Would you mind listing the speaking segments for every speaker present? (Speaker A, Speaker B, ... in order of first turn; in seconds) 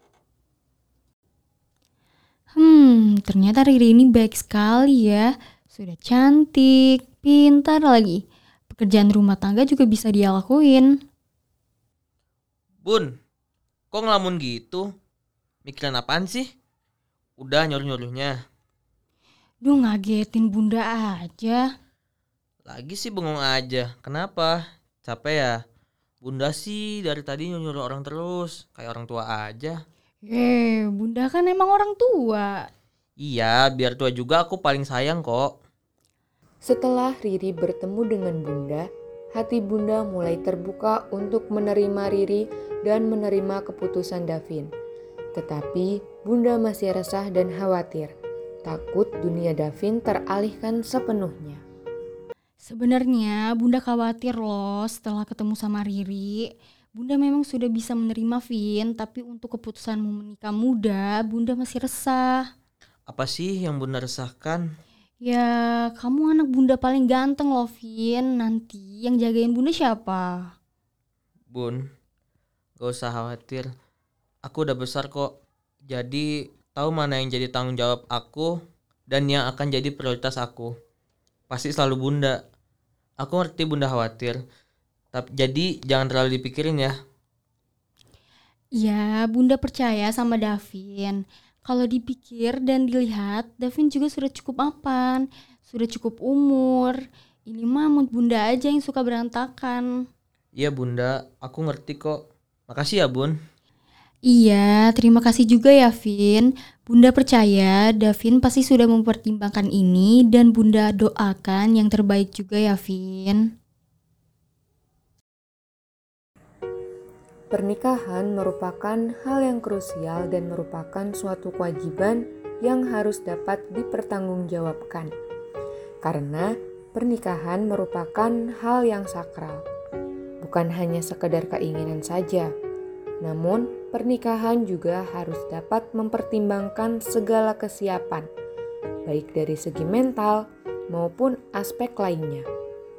Speaker A: 2.5-10.9, 19.6-21.7, 30.2-32.7, 52.6-62.5, 65.2-70.5, 88.8-99.9, 104.3-113.5
Speaker B: 12.8-13.1, 13.9-14.9, 15.7-16.5, 17.4-18.4, 22.7-25.6, 26.2-29.8, 33.2-35.5, 63.1-64.7, 71.5-71.8, 72.8-73.7, 74.4-75.3, 75.9-78.5, 79.1-80.7, 81.5-82.4, 83.2-84.4, 85.1-87.0, 100.5-103.3
Speaker C: 36.6-44.7, 45.4-48.1, 48.7-51.6, 117.5-125.1, 126.0-129.6, 130.4-132.5, 133.2-138.3, 139.1-142.5